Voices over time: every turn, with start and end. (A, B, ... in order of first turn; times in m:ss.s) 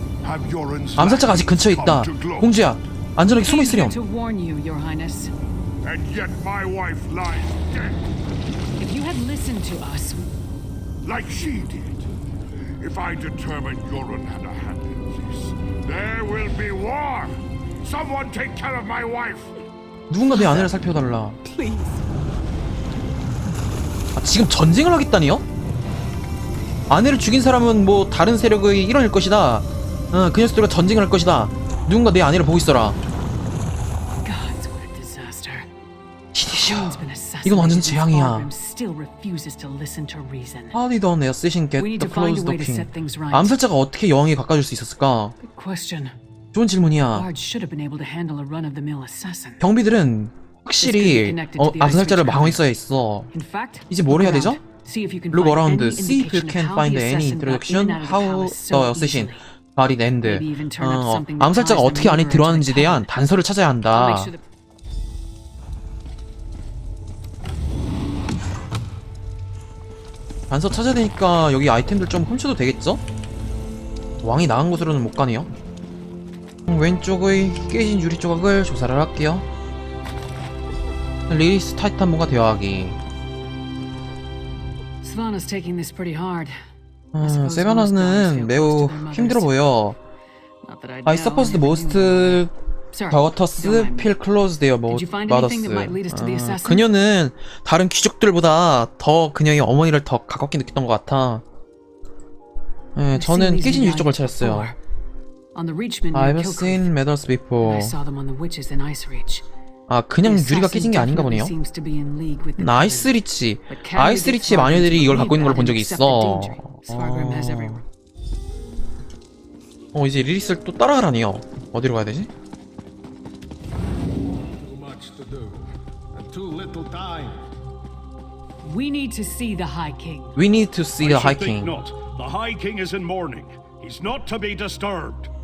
0:00.2-0:02.6 A
0:01.0-0:04.0 B
0:03.3-0:05.3 C
0:05.8-0:08.0 A
0:08.8-0:10.3 C
0:11.0-0:12.1 A
0:12.8-0:19.6 A
0:20.1-0:21.4 B
0:20.4-0:20.7 C
0:21.5-0:22.0 C
0:24.2-0:25.4 B
0:26.9-0:33.0 B
0:34.2-0:35.7 C
0:36.3-0:38.5 B
0:36.5-0:40.8 C
0:40.7-0:45.4 B
0:41.8-0:43.6 C
0:45.4-0:46.2 C
0:46.5-0:47.3 B
0:47.1-0:49.6 C
0:49.6-0:53.3 B
0:50.8-0:52.7 C
0:53.3-0:59.4 C
0:53.9-0:54.6 B
0:55.3-1:04.3 B
1:00.2-1:03.1 C
1:03.9-1:04.4 C
1:10.5-1:13.0 B
1:14.2-1:15.5 B
1:16.7-1:19.5 B
1:21.3-1:23.0 B
1:25.0-1:26.6 C
1:27.1-1:30.0 B
1:27.2-1:29.6 C
1:30.6-1:34.1 C
1:31.1-1:32.5 B
1:33.1-1:41.4 B
1:34.9-1:36.9 C
1:43.0-1:44.8 B
1:43.1-1:44.8 C
1:45.5-1:46.9 C
1:46.1-1:48.0 B
1:47.6-1:49.4 C
1:49.9-1:51.5 B
1:50.2-1:53.2 C
1:52.6-1:57.8 B
1:53.7-1:57.8 C
1:59.9-2:02.3 B
2:04.6-2:05.5 D
2:06.2-2:07.3 D
2:08.6-2:10.4 C
2:10.4-2:11.8 B
2:11.0-2:15.3 E